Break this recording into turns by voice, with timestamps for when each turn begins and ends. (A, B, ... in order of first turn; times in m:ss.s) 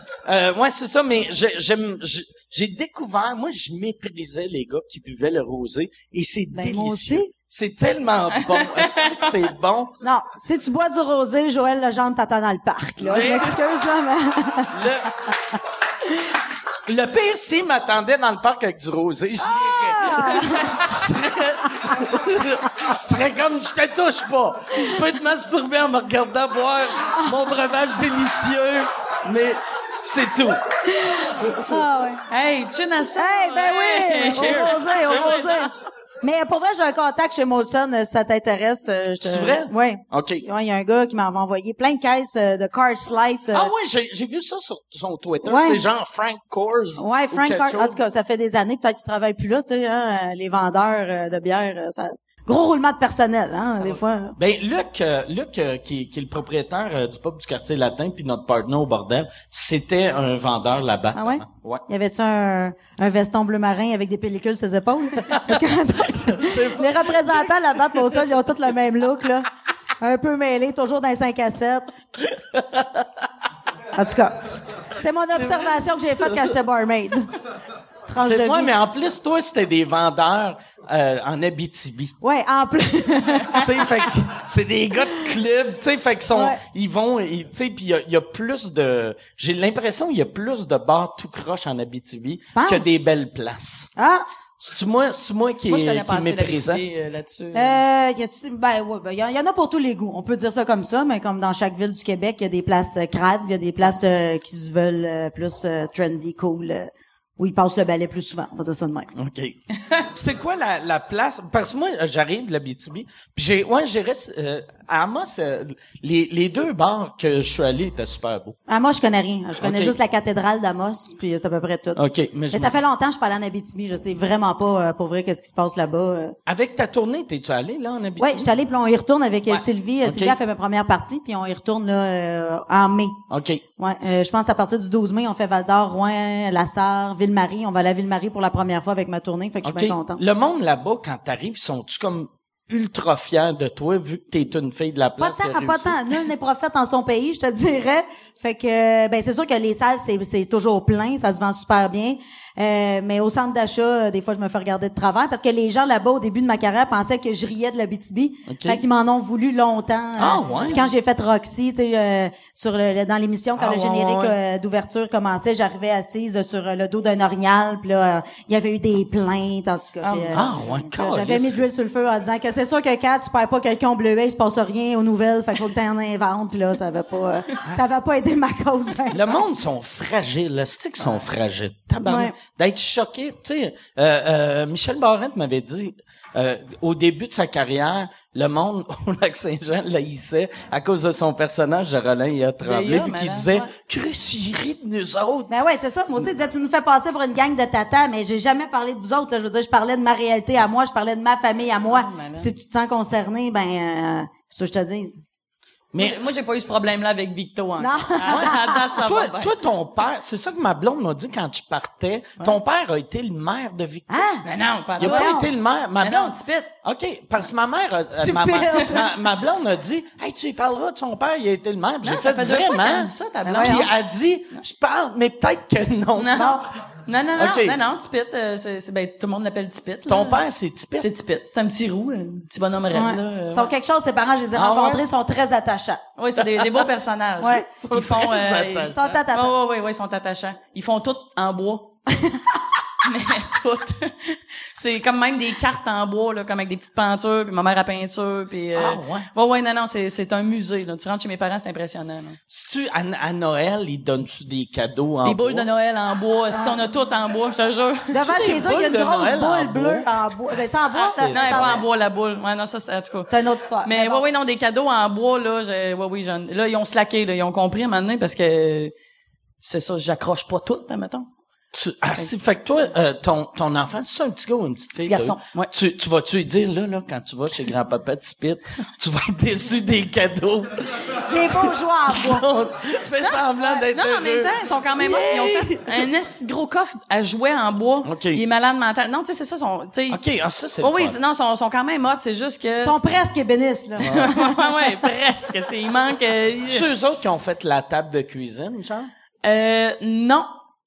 0:00.2-0:10.0 A
0:06.5-0:07.3 B
0:08.4-0:09.3 C
0:10.0-0:14.8 B
0:13.0-0:13.6 A
0:14.7-0:15.1 A
0:16.8-0:30.6 A
0:19.4-0:20.9 B
0:31.0-0:32.2 B
0:31.4-0:31.8 A
0:32.3-0:35.5 C
0:33.2-0:43.7 B
0:34.3-0:35.4 A
0:39.2-0:40.4 A
0:43.5-0:48.0 A
0:45.4-0:45.8 B
0:47.0-0:54.4 B
0:54.4-1:01.8 A
1:01.1-1:11.8 B
1:06.3-1:07.4 A
1:12.3-1:13.1 A
1:13.9-1:14.4 B
1:15.0-1:17.3 B
1:15.4-1:15.7 A
1:16.2-1:16.5 A
1:18.1-1:18.7 B
1:18.2-1:22.1 A
1:22.2-1:24.1 B
1:23.5-1:33.9 A
1:26.3-1:26.6 B
1:32.5-1:33.0 B
1:34.0-1:34.2 B
1:34.6-1:36.8 A
1:35.7-1:37.8 C
1:37.5-1:49.1 B
1:49.1-1:58.6 A
1:58.7-2:06.4 B
1:59.6-2:00.0 A
2:02.0-2:02.8 A
2:06.5-2:08.5 A
2:08.2-2:13.2 B
2:09.5-2:10.4 A
2:13.3-2:13.6 A
2:13.8-2:20.2 B
2:19.6-2:26.0 A
2:25.2-2:59.4 B
2:38.5-2:38.8 A
2:40.2-2:40.8 A
2:40.4-2:40.9 C
2:43.6-2:44.4 A
2:50.0-2:50.7 C
2:50.3-2:51.7 A
2:59.1-3:15.7 A
3:02.1-3:02.3 B
3:12.6-3:13.5 C
3:15.5-3:25.2 B
3:21.9-3:22.5 C
3:26.0-3:29.5 C
3:27.8-3:28.8 B
3:28.3-3:34.2 A
3:34.1-3:34.4 B
3:34.4-3:35.5 C
3:35.0-3:46.5 A
3:35.0-3:35.5 B
3:36.0-3:36.7 C
3:38.1-3:39.2 B
3:42.0-3:43.9 C
3:43.4-3:43.9 B
3:46.2-3:50.4 C
3:46.4-3:46.6 B
3:47.4-3:47.8 A
3:50.1-3:51.1 A
3:51.0-3:53.7 C
3:52.9-3:56.0 B
3:54.5-3:55.0 A
3:56.2-4:02.0 C
3:56.4-3:56.9 A
3:57.4-3:57.7 B
3:57.7-3:59.2 A
3:58.9-3:59.5 B
4:03.0-4:12.4 C
4:08.8-4:09.3 A
4:12.5-4:15.7 A
4:15.2-4:18.1 C
4:16.5-4:16.8 B
4:18.1-4:21.9 B
4:18.1-4:21.8 A
4:20.9-4:28.9 C
4:23.3-4:24.2 B
4:29.6-4:31.3 C
4:31.7-4:46.1 A
4:35.0-4:35.7 C
4:41.3-4:42.5 B
4:43.9-4:50.2 C
4:48.0-4:48.4 A
4:50.1-4:51.2 A
4:50.8-4:53.1 C
4:52.8-4:54.6 B
4:54.0-4:54.3 A
4:54.1-4:56.9 C
4:56.7-4:59.1 A
4:59.4-5:00.5 C